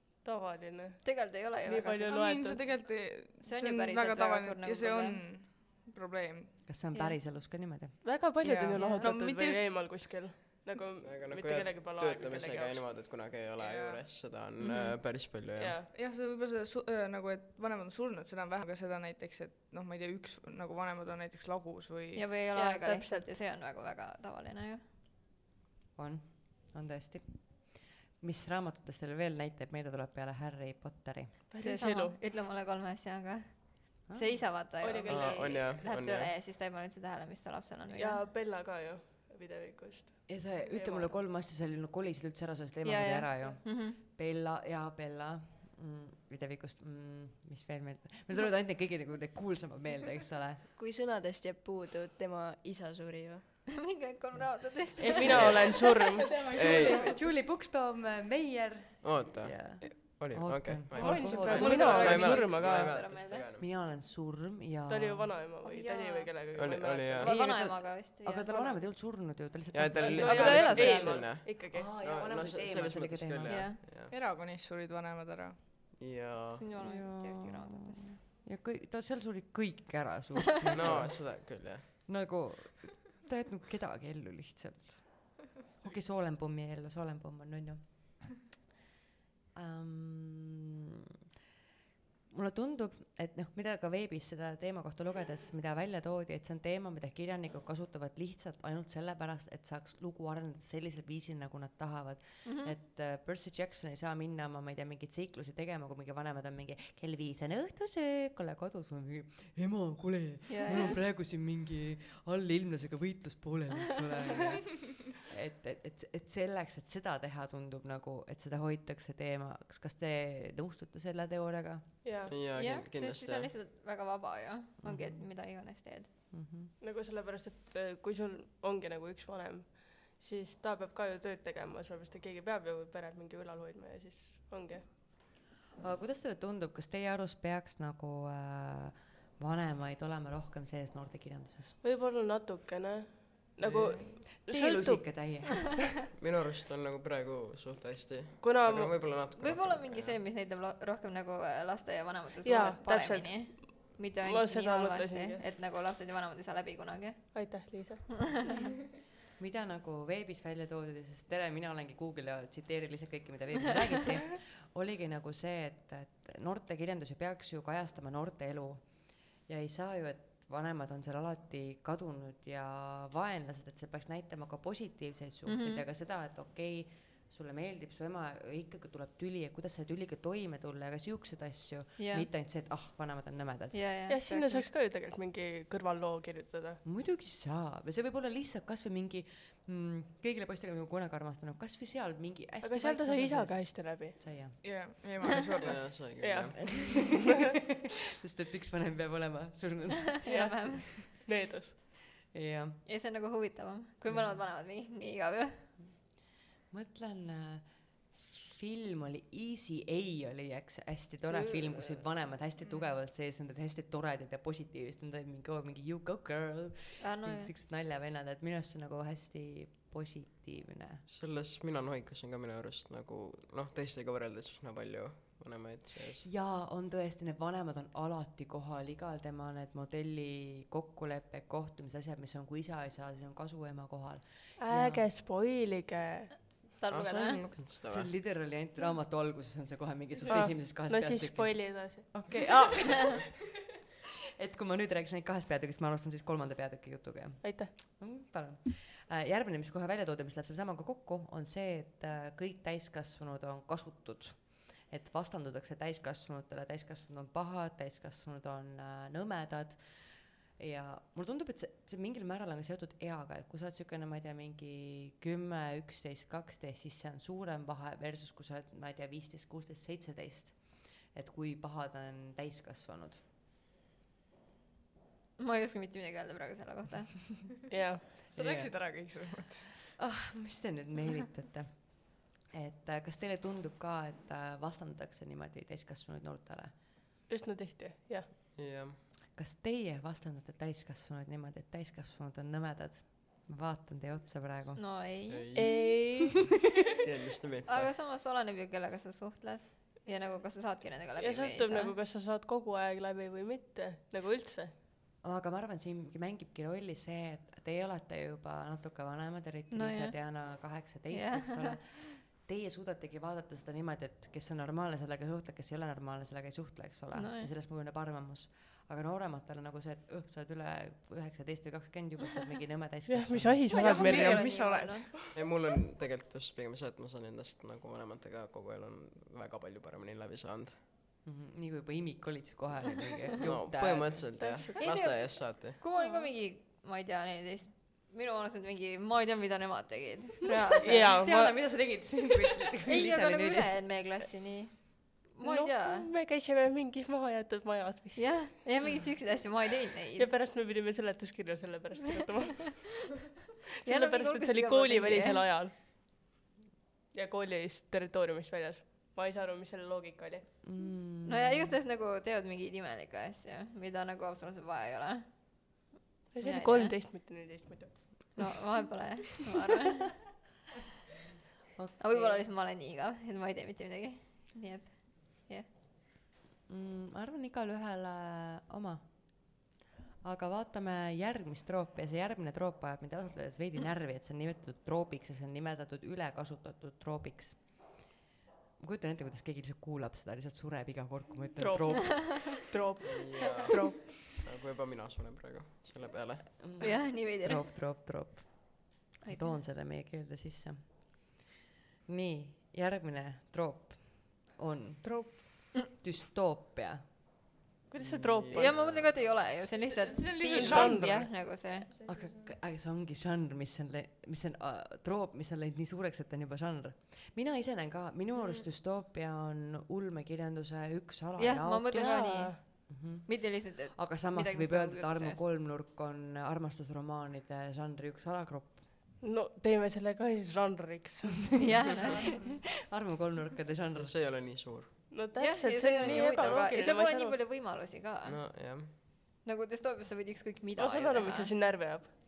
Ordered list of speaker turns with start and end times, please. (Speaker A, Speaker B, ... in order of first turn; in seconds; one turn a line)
Speaker A: 0.2-2.6
Speaker B: 1.0-2.2
Speaker C: 2.1-6.7
Speaker B: 3.4-5.2
Speaker D: 6.7-8.0
Speaker A: 8.0-12.9
Speaker C: 8.4-10.1
Speaker B: 8.8-9.1
Speaker E: 11.0-15.8
Speaker C: 13.6-14.0
Speaker B: 14.6-15.0
Speaker A: 15.6-15.9
Speaker C: 15.9-22.4
Speaker B: 22.1-24.8
Speaker A: 22.5-23.3
Speaker D: 26.0-31.4
Speaker A: 31.5-32.2
Speaker B: 31.6-38.3
Speaker D: 34.1-34.4
Speaker A: 34.8-35.7
Speaker E: 35.1-36.3
Speaker A: 37.9-41.2
Speaker D: 40.3-50.6
Speaker B: 42.9-44.0
Speaker F: 50.8-53.5
Speaker B: 53.7-55.7
Speaker D: 54.3-65.3
Speaker A: 55.1-56.4
Speaker E: 55.3-55.7
Speaker C: 56.1-57.2
Speaker E: 56.5-57.1
Speaker E: 59.0-63.7
Speaker A: 61.0-62.9
Speaker B: 61.5-63.5
Speaker A: 64.9-67.3
Speaker B: 65.6-66.3
Speaker E: 66.5-67.3
Speaker B: 67.2-68.5
Speaker D: 67.2-73.7
Speaker E: 69.7-74.1
Speaker A: 70.0-71.9
Speaker B: 70.5-70.9
Speaker B: 73.5-73.8
Speaker C: 74.1-75.6
Speaker E: 76.0-76.6
Speaker B: 76.6-78.2
Speaker D: 76.8-88.2
Speaker E: 80.7-81.8
Speaker D: 89.5-90.8
Speaker D: 92.3-121.9
Speaker B: 102.5-102.8
Speaker B: 110.5-111.0
Speaker A: 122.0-122.3
Speaker E: 122.3-123.5
Speaker B: 122.5-126.1
Speaker D: 124.8-125.3
Speaker D: 126.3-126.7
Speaker A: 126.8-134.9
Speaker D: 135.8-141.8
Speaker A: 141.8-145.2
Speaker D: 143.7-145.8
Speaker E: 146.2-150.2
Speaker A: 148.4-149.1
Speaker B: 149.4-158.6
Speaker A: 152.4-155.4
Speaker A: 157.3-158.3
Speaker D: 159.4-183.8
Speaker B: 175.5-175.8
Speaker B: 182.0-182.3
Speaker B: 183.7-184.7
Speaker A: 184.1-186.8
Speaker D: 186.8-194.8
Speaker A: 192.6-194.3
Speaker C: 194.6-196.1
Speaker E: 195.6-196.6
Speaker A: 196.2-197.2
Speaker D: 196.7-197.4
Speaker D: 198.2-201.3
Speaker B: 200.2-200.9
Speaker A: 200.3-201.7
Speaker D: 202.3-202.8
Speaker B: 202.9-205.7
Speaker D: 204.1-204.4
Speaker D: 206.7-221.0
Speaker B: 211.3-211.6
Speaker B: 217.0-217.5
Speaker E: 221.1-226.3
Speaker D: 226.2-235.0
Speaker A: 234.6-236.4
Speaker B: 236.8-237.5
Speaker E: 236.9-238.1
Speaker D: 237.8-243.3
Speaker A: 240.2-242.2
Speaker D: 244.4-273.2
Speaker A: 247.4-247.7
Speaker B: 275.4-277.4
Speaker A: 277.7-278.1
Speaker C: 278.3-279.9
Speaker D: 278.4-278.7
Speaker D: 280.0-286.7
Speaker A: 287.3-288.3
Speaker E: 288.6-289.0
Speaker D: 289.3-294.8
Speaker B: 294.8-295.5
Speaker E: 295.3-295.9
Speaker A: 295.6-296.5
Speaker E: 297.0-297.9
Speaker B: 297.7-301.9
Speaker A: 301.2-304.7
Speaker D: 305.2-323.7
Speaker B: 309.7-310.4
Speaker B: 311.1-312.0
Speaker B: 317.1-317.5
Speaker A: 323.1-324.6
Speaker B: 323.7-325.1
Speaker C: 323.7-325.2
Speaker E: 325.4-330.8
Speaker D: 331.2-334.5
Speaker E: 333.4-335.8
Speaker A: 334.4-334.9
Speaker B: 334.8-341.1
Speaker D: 340.8-344.0
Speaker A: 340.9-341.7
Speaker B: 342.9-346.1
Speaker A: 345.4-348.6
Speaker B: 348.2-350.3
Speaker A: 350.2-353.2
Speaker B: 353.8-355.6
Speaker A: 353.9-355.7
Speaker A: 357.1-360.5
Speaker D: 360.6-361.8
Speaker B: 361.2-366.9
Speaker A: 366.3-368.4
Speaker B: 368.4-370.4
Speaker B: 372.0-375.7
Speaker D: 376.7-379.5
Speaker D: 380.2-387.9
Speaker D: 388.8-392.5
Speaker A: 391.6-394.0
Speaker E: 393.1-396.6
Speaker D: 396.6-401.3
Speaker B: 396.8-397.7
Speaker B: 399.2-399.6
Speaker D: 402.1-407.1
Speaker A: 405.0-405.7
Speaker A: 407.9-408.8
Speaker E: 408.0-409.7
Speaker B: 408.5-411.9
Speaker C: 410.1-411.1
Speaker A: 410.4-411.2
Speaker D: 410.5-428.9
Speaker B: 418.4-418.6
Speaker B: 421.4-425.4
Speaker A: 421.9-422.6
Speaker A: 429.2-431.6
Speaker B: 431.6-432.4
Speaker D: 431.6-434.2
Speaker C: 432.1-432.6
Speaker E: 433.9-435.0
Speaker A: 435.1-437.4
Speaker B: 435.4-438.4
Speaker E: 438.2-438.9
Speaker B: 439.4-441.5
Speaker A: 440.8-442.1